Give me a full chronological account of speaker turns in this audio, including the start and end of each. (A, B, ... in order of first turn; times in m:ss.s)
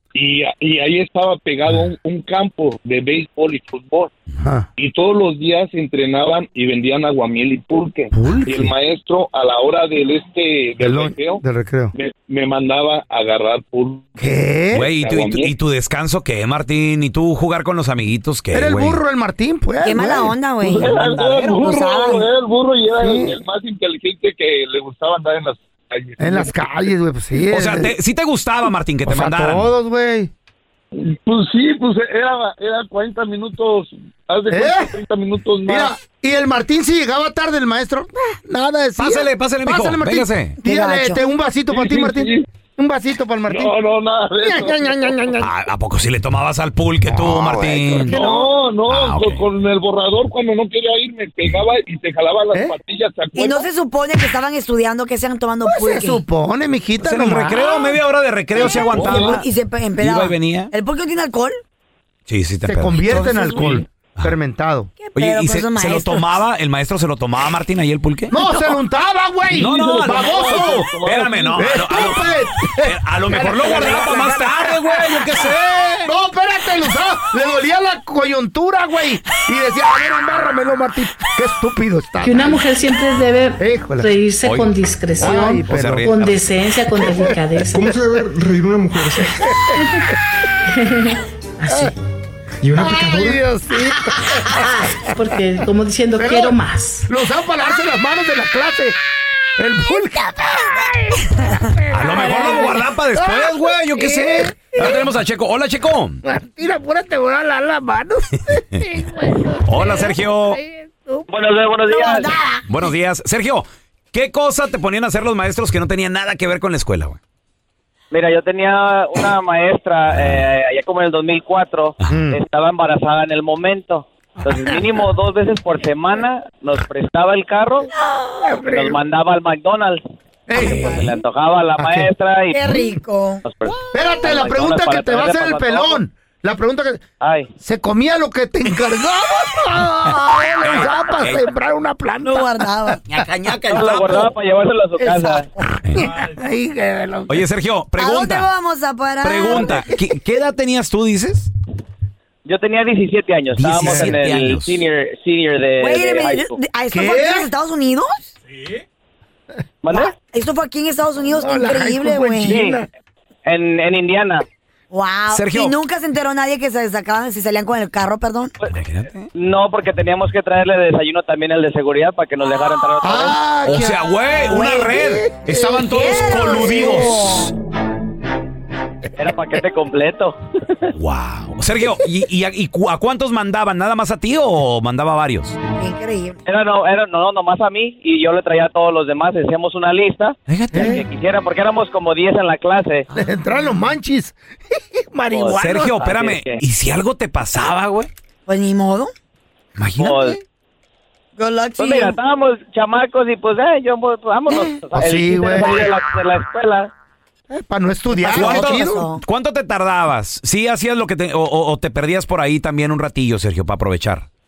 0:00.2-0:04.1 A
0:04.4-0:04.7 B
0:04.8-0:11.4 A
0:08.1-0:08.7 B
0:10.8-0:11.9 B
0:11.9-0:14.4 A
0:14.2-0:14.9 B
0:14.7-0:19.0 C
0:14.9-0:15.5 A
0:18.5-0:20.3 B
0:19.8-0:22.3 D
0:20.6-0:26.8 A
0:21.0-0:21.4 C
0:23.0-0:23.4 B
0:26.2-0:27.9 B
0:27.5-0:29.7 C
0:29.0-0:30.3 B
0:30.9-0:35.9 A
0:34.5-0:35.0 B
0:35.7-0:43.8 B
0:39.0-0:40.6 C
0:40.6-0:41.2 D
0:41.7-0:42.5 A
0:43.5-0:45.2 A
0:44.4-0:45.5 B
0:45.4-0:48.2 C
0:47.1-0:48.5 B
0:48.1-0:53.7 A
0:48.9-0:49.5 C
0:53.3-0:56.2 D
0:55.7-0:57.9 B
0:57.0-0:59.4 C
0:58.6-1:01.6 D
0:58.6-0:59.4 A
1:00.0-1:00.7 C
1:02.3-1:03.3 C
1:02.7-1:04.9 B
1:03.0-1:03.8 D
1:05.0-1:06.4 D
1:05.2-1:08.4 C
1:08.3-1:10.9 B
1:09.5-1:16.1 C
1:09.6-1:11.6 A
1:11.6-1:15.4 B
1:16.0-1:22.7 B
1:22.2-1:28.0 E
1:23.6-1:24.1 B
1:24.4-1:26.5 C
1:25.2-1:26.2 B
1:27.0-1:27.4 B
1:27.7-1:29.4 F
1:29.3-1:30.0 B
1:29.8-1:30.1 E
1:30.7-1:32.0 E
1:31.7-1:31.9 B
1:32.6-1:33.4 F
1:32.8-1:34.8 B
1:34.5-1:37.1 E
1:36.2-1:39.0 B
1:39.6-1:45.1 B
1:41.9-1:46.2 C
1:42.2-1:42.7 D
1:46.2-1:51.3 B
1:49.6-1:50.6 C
1:51.3-1:52.3 G
1:51.9-1:52.6 D
1:52.7-1:57.2 C
1:58.1-2:07.9 G
2:00.1-2:00.5 C
2:02.1-2:02.4 B
2:08.1-2:08.4 D
2:08.4-2:09.0 B
2:08.7-2:10.0 G
2:10.5-2:11.0 B
2:10.6-2:11.1 C
2:10.6-2:12.6 G
2:12.5-2:13.4 D
2:13.5-2:16.0 G
2:13.9-2:17.0 B
2:17.2-2:17.5 G
2:17.6-2:23.0 B
2:20.6-2:21.5 C
2:22.2-2:23.0 D
2:23.1-2:24.3 C
2:23.7-2:25.5 G
2:25.0-2:27.5 B
2:25.8-2:26.1 C
2:27.3-2:28.5 C
2:28.0-2:29.8 D
2:29.2-2:31.5 C
2:32.5-2:36.6 G
2:33.6-2:34.8 C
2:33.8-2:34.1 B
2:35.8-2:38.3 D
2:36.9-2:37.5 B
2:39.8-2:40.1 G
2:39.9-2:42.6 D
2:41.4-2:42.9 B
2:42.4-2:42.8 G
2:43.5-2:44.4 G
2:44.9-2:48.5 D
2:45.3-2:45.7 C
2:48.7-2:49.3 C
2:49.3-2:53.4 G
2:53.0-2:55.5 B
2:53.6-2:57.5 C
2:54.5-2:57.5 D
2:59.2-3:00.4 G
3:00.9-3:05.6 C
3:05.8-3:06.4 D
3:06.5-3:13.1 G
3:10.5-3:11.0 C
3:10.7-3:11.0 B
3:13.1-3:16.0 B
3:15.3-3:16.6 G
3:15.6-3:18.1 C
3:18.5-3:19.1 D
3:19.8-3:20.4 C
3:20.0-3:20.4 G
3:21.4-3:22.2 D
3:21.8-3:26.9 G
3:24.5-3:24.8 D
3:24.9-3:25.9 B
3:27.5-3:29.1 B
3:28.1-3:29.2 D
3:28.3-3:34.3 C